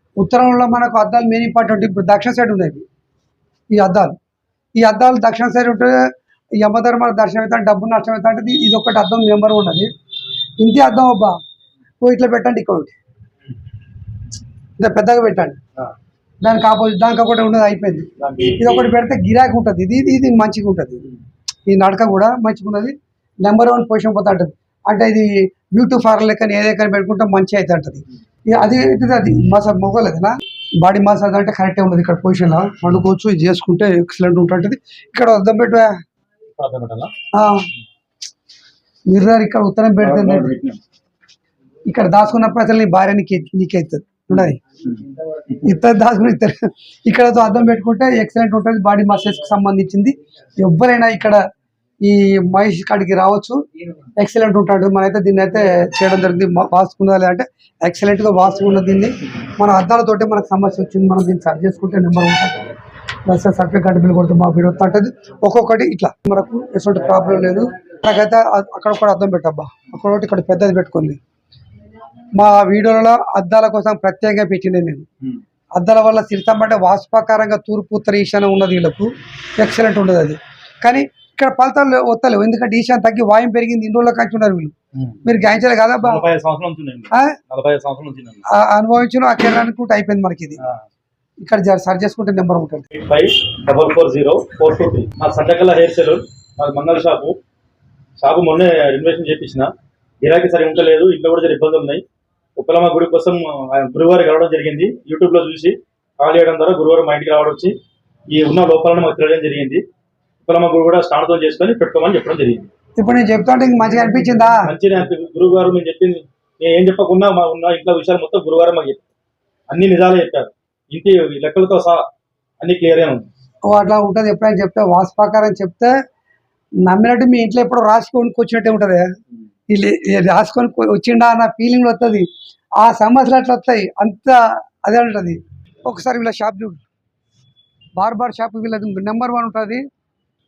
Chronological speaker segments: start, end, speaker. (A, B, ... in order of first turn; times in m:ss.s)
0:00.2-0:02.8 A
0:03.7-0:04.2 A
0:04.8-0:06.0 A
0:06.6-0:09.9 A
0:10.6-0:11.4 A
0:12.0-0:12.9 A
0:14.8-0:15.6 A
0:16.4-0:21.1 A
0:18.2-0:18.9 B
0:21.7-0:35.9 A
0:36.6-0:37.1 B
0:37.3-0:37.7 A
0:39.1-0:40.5 A
0:40.0-0:40.8 B
0:41.9-0:44.6 A
0:45.5-0:51.4 A
0:52.0-0:53.6 A
0:54.2-1:11.2 A
1:12.3-1:15.1 A
1:15.8-1:24.7 A
1:25.2-1:26.2 A
1:26.1-1:28.4 B
1:27.1-1:27.4 A
1:28.5-1:30.6 A
1:31.4-1:32.9 A
1:33.0-1:37.4 B
1:38.2-1:42.0 B
1:42.6-1:47.8 B
1:48.3-1:49.8 B
1:50.4-1:52.7 B
1:53.0-1:54.7 A
1:54.6-1:59.0 B
1:59.7-2:02.0 B
2:02.6-2:03.3 B
2:03.7-2:05.9 A
2:06.8-2:09.1 A
2:09.7-2:12.3 A
2:12.8-2:16.8 A
2:18.0-2:19.8 A